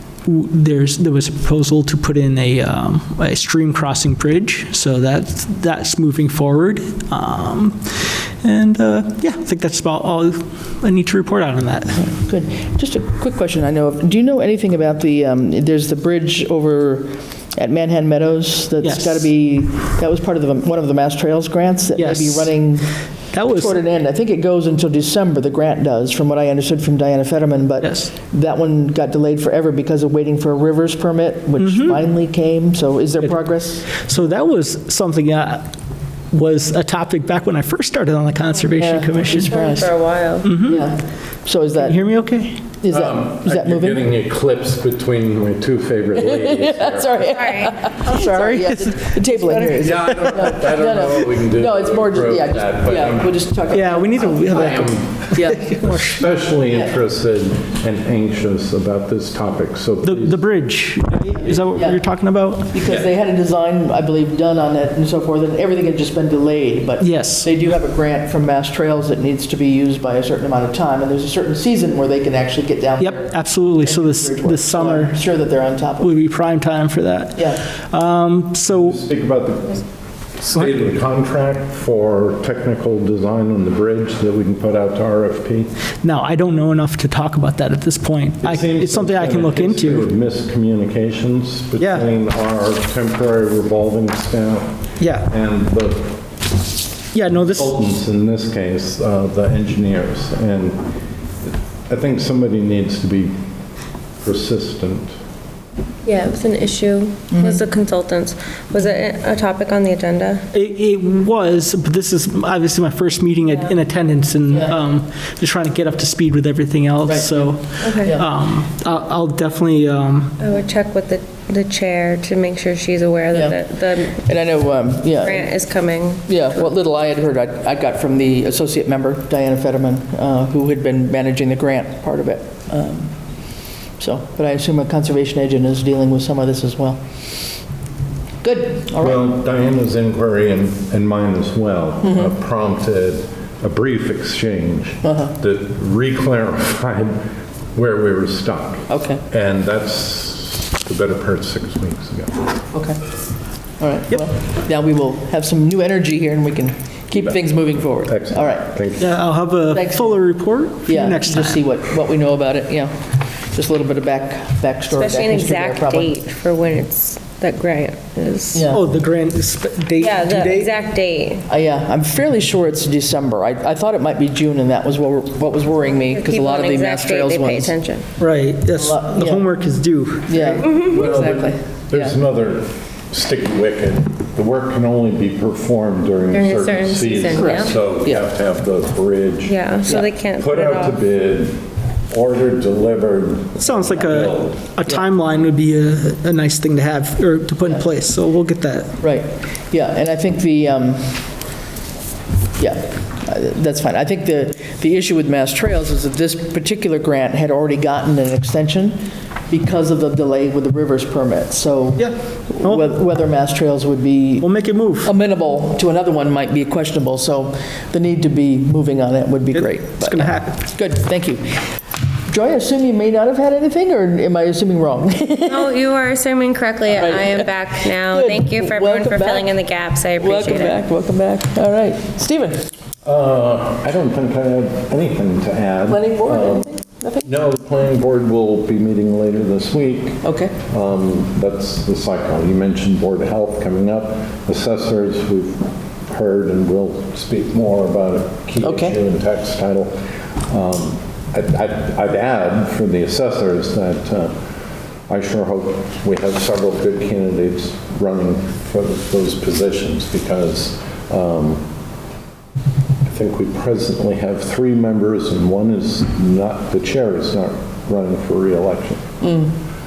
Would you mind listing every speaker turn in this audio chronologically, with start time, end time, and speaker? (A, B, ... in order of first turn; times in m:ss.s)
0:00.2-0:12.1 A
0:12.1-0:33.9 B
0:18.8-0:19.3 A
0:22.0-0:22.7 A
0:23.3-0:23.8 A
0:27.8-0:28.1 A
0:31.6-0:32.0 A
0:33.2-0:35.7 A
0:36.3-0:39.7 A
0:38.8-0:40.0 B
0:39.3-0:40.5 C
0:40.4-0:40.9 A
0:40.6-0:42.0 B
0:41.8-0:42.6 A
0:42.8-0:44.0 B
0:42.9-0:47.4 D
0:46.2-0:55.9 B
0:47.3-0:47.8 C
0:48.0-0:50.5 A
0:49.8-0:53.4 D
0:53.7-0:56.2 A
0:54.5-0:55.2 D
0:55.9-1:00.4 D
0:56.7-0:57.0 B
1:00.0-1:02.8 A
1:01.5-1:02.0 B
1:02.7-1:16.1 B
1:07.0-1:07.5 A
1:13.0-1:15.2 A
1:16.0-1:19.0 A
1:17.4-1:17.6 B
1:18.7-1:19.8 D
1:20.4-1:25.7 D
1:26.0-1:30.1 A
1:28.4-1:36.1 D
1:31.8-1:32.0 A
1:35.0-1:35.3 A
1:37.1-1:37.8 A
1:37.5-1:40.9 D
1:41.4-1:43.3 D
1:44.2-1:45.1 D
1:46.0-1:50.4 C
1:47.3-1:47.6 B
1:50.5-2:00.4 A
1:54.5-1:54.8 B
1:57.0-1:58.3 B
1:57.8-1:58.1 C
2:00.4-2:04.3 C
2:03.3-2:03.6 B
2:04.1-2:05.6 B
2:05.2-2:06.6 C
2:06.3-2:13.1 B
2:14.0-2:17.0 B
2:18.4-2:19.3 B
2:19.0-2:32.4 D
2:22.0-2:22.3 B
2:25.0-2:25.4 B
2:28.9-2:29.2 B
2:32.7-2:33.0 B
2:33.8-2:38.7 B
2:37.1-2:39.1 D
2:39.0-2:41.6 A
2:39.7-2:40.2 B
2:40.8-2:46.1 B
2:44.9-2:48.7 C
2:48.5-2:48.8 B
2:48.7-2:50.7 A
2:50.0-2:51.4 C
2:51.5-2:57.7 B
2:55.8-2:58.1 C
2:58.2-3:00.6 A
2:58.7-2:59.5 B
3:00.3-3:02.1 B
3:00.6-3:00.9 C
3:00.8-3:09.6 D
3:06.3-3:07.8 C
3:07.3-3:08.3 B
3:09.4-3:11.0 C
3:10.4-3:14.6 D
3:13.6-3:19.0 A
3:19.0-3:21.4 B
3:22.6-3:29.0 B
3:29.5-3:41.7 B
3:32.0-3:32.9 A
3:34.4-3:35.1 A
3:39.5-3:40.6 A
3:42.3-3:45.8 B
3:45.5-3:50.8 C
3:46.9-3:49.6 B
3:50.2-3:52.6 B
3:53.0-3:56.7 D
3:55.9-3:57.3 B
3:57.2-4:14.4 D
4:00.2-4:00.5 B
4:08.6-4:09.0 B
4:15.1-4:21.6 D
4:23.0-4:29.0 D
4:29.2-4:29.5 B